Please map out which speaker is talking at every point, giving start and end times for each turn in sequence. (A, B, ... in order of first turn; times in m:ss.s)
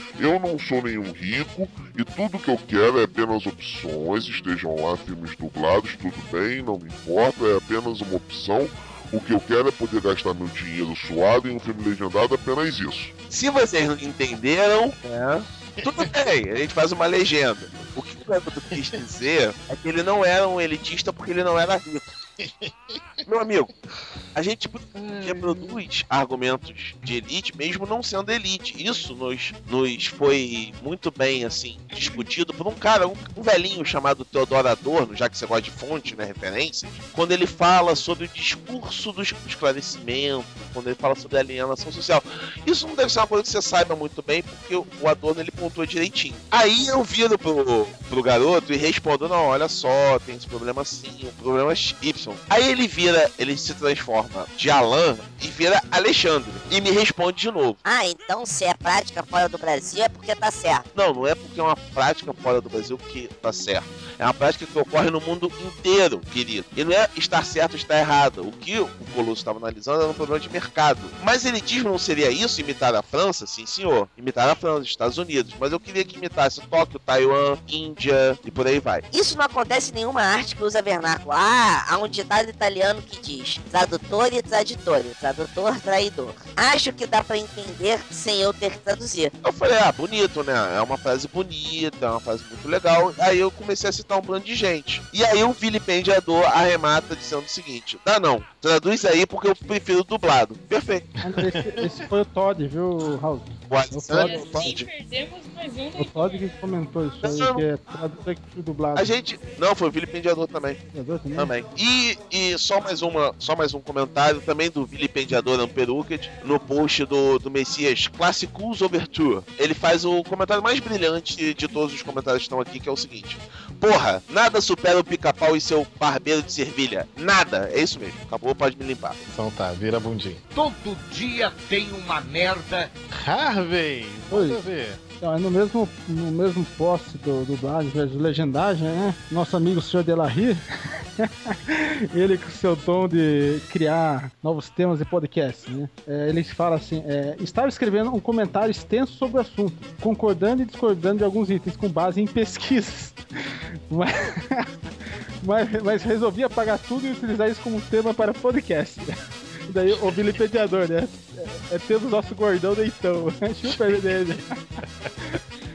0:00.2-0:13.1 A
0:13.3-0:22.0 B
0:15.8-0:16.1 C
0:18.7-0:19.0 C
0:22.4-0:23.0 C
0:23.3-0:23.7 B
0:24.4-0:57.8 B
0:25.0-0:25.8 C
0:57.8-1:00.8 D
1:00.9-1:19.0 B
1:19.1-1:29.3 D
1:29.4-1:41.1 B
1:41.2-1:42.0 C
1:41.2-1:44.5 E
1:43.7-1:44.9 B
1:44.2-1:46.6 F
1:46.0-1:49.1 E
1:47.2-1:47.6 B
1:49.0-1:50.8 B
1:50.9-1:51.5 E
1:51.4-2:09.2 B
2:09.3-2:10.4 C
2:10.5-2:12.9 G
2:13.1-2:15.0 C
2:14.3-2:14.6 E
2:15.2-2:20.6 E
2:21.2-2:33.2 E
2:33.9-2:34.7 E
2:35.4-2:39.1 E
2:39.7-2:44.6 E
2:43.6-2:44.3 C